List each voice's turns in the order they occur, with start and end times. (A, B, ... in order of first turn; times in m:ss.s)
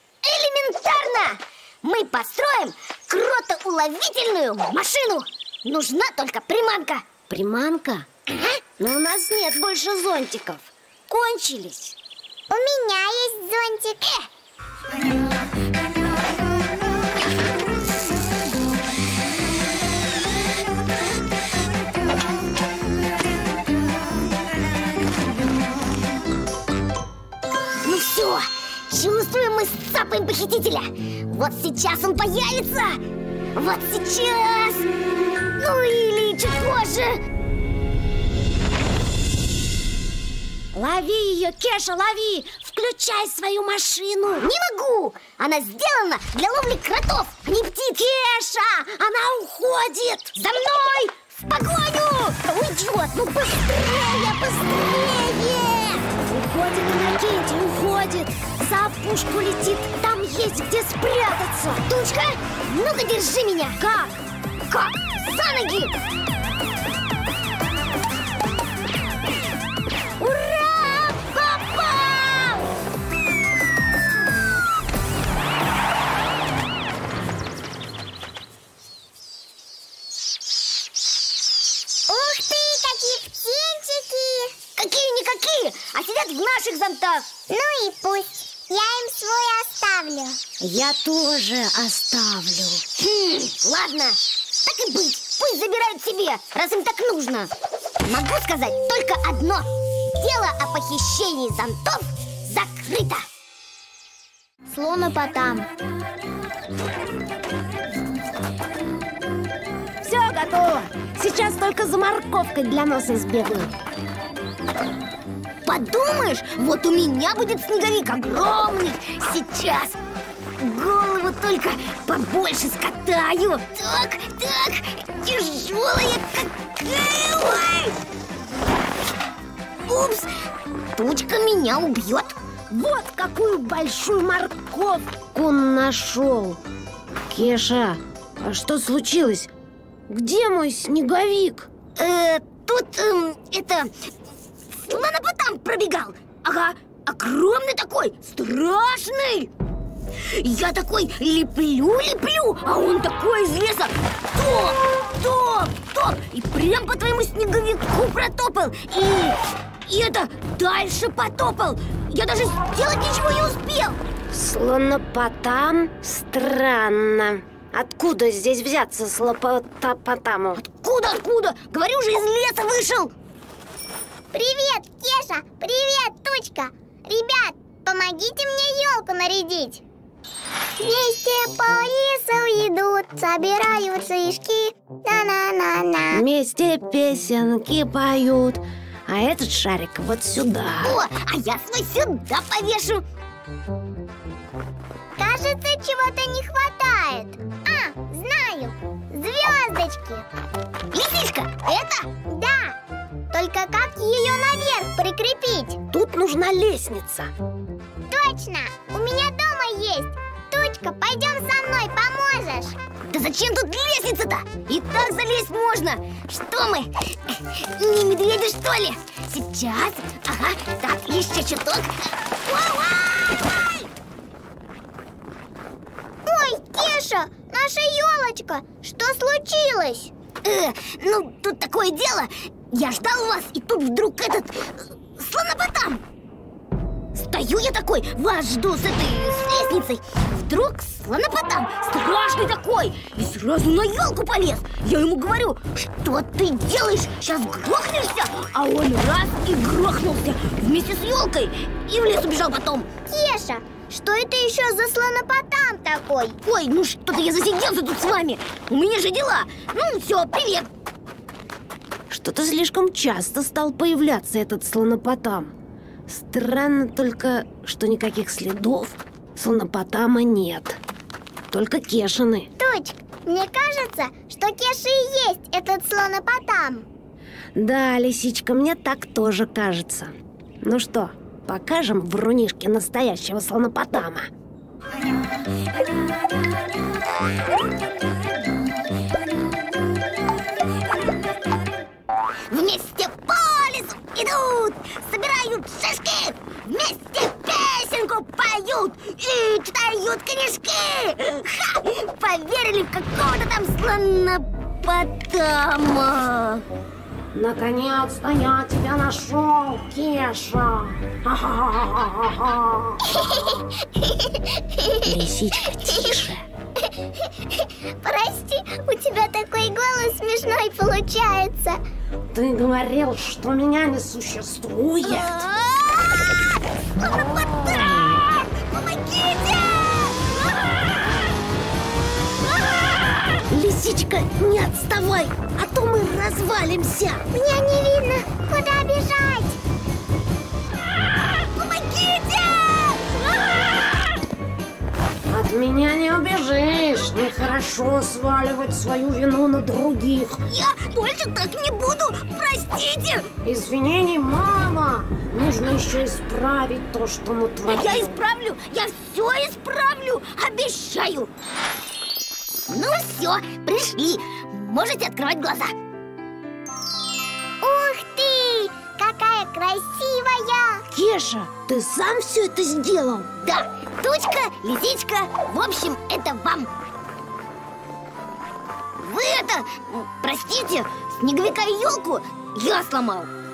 0:00.2-0:07.0 A
0:07.3-0:08.1 B
0:08.3-0:08.6 A
0:08.8-0:12.0 B
0:12.5-0:14.3 C
0:27.8-0:33.0 A
0:33.6-0:34.9 A
0:35.6-0:37.2 A
0:40.8-0:44.5 B
0:44.4-0:47.9 A
0:47.8-0:50.4 B
0:50.4-0:56.0 A
0:56.1-1:01.9 B
1:01.9-1:03.8 A
1:03.8-1:04.1 B
1:04.7-1:05.9 A
1:10.3-1:12.6 A
1:22.1-1:24.6 C
1:24.8-1:27.3 A
1:27.5-1:30.4 C
1:30.6-1:32.8 B
1:33.0-1:37.5 A
1:38.0-1:43.2 A
1:44.7-1:45.6 C
1:50.0-1:53.7 B
1:55.6-2:00.0 A
2:00.6-2:08.0 A
2:09.9-2:10.3 A
2:10.9-2:12.4 A
2:12.7-2:16.6 B
2:17.3-2:19.5 B
2:20.1-2:21.7 B
2:22.0-2:23.9 A
2:24.8-2:29.5 A
2:30.2-2:44.0 A
2:44.3-2:50.6 B
2:50.6-2:53.2 A
2:54.3-2:59.8 C
3:00.8-3:06.2 C
3:06.1-3:11.0 B
3:10.8-3:13.0 A
3:15.2-3:20.3 C
3:20.9-3:22.1 A
3:22.3-3:22.8 C
3:23.3-3:25.8 C
3:25.9-3:27.3 B
3:28.1-3:32.8 C
3:33.0-3:43.9 A
3:46.3-3:50.1 C
3:50.4-3:56.0 A
3:57.2-4:12.9 A
4:13.1-4:16.4 C
4:16.4-4:20.7 A
4:22.1-4:25.5 B
4:26.1-4:30.8 B
4:31.5-4:32.5 B
4:32.6-4:36.9 C
4:37.6-4:44.3 B
4:52.5-5:06.6 A
5:07.3-5:13.1 B
5:13.1-5:15.1 C
5:15.0-5:16.4 B
5:15.9-5:16.1 C
5:17.2-5:21.8 C
5:22.3-5:25.5 B
5:25.1-5:30.4 A
5:33.5-5:37.2 B
5:37.3-5:39.6 C
5:41.6-5:43.6 A
5:45.3-5:50.4 B
5:50.5-5:53.3 A
5:53.4-5:58.2 B
5:57.7-6:01.3 A
6:02.7-6:05.7 A
6:07.6-6:10.9 C
6:10.9-6:13.3 B
6:13.4-6:16.7 A
6:19.0-6:23.3 A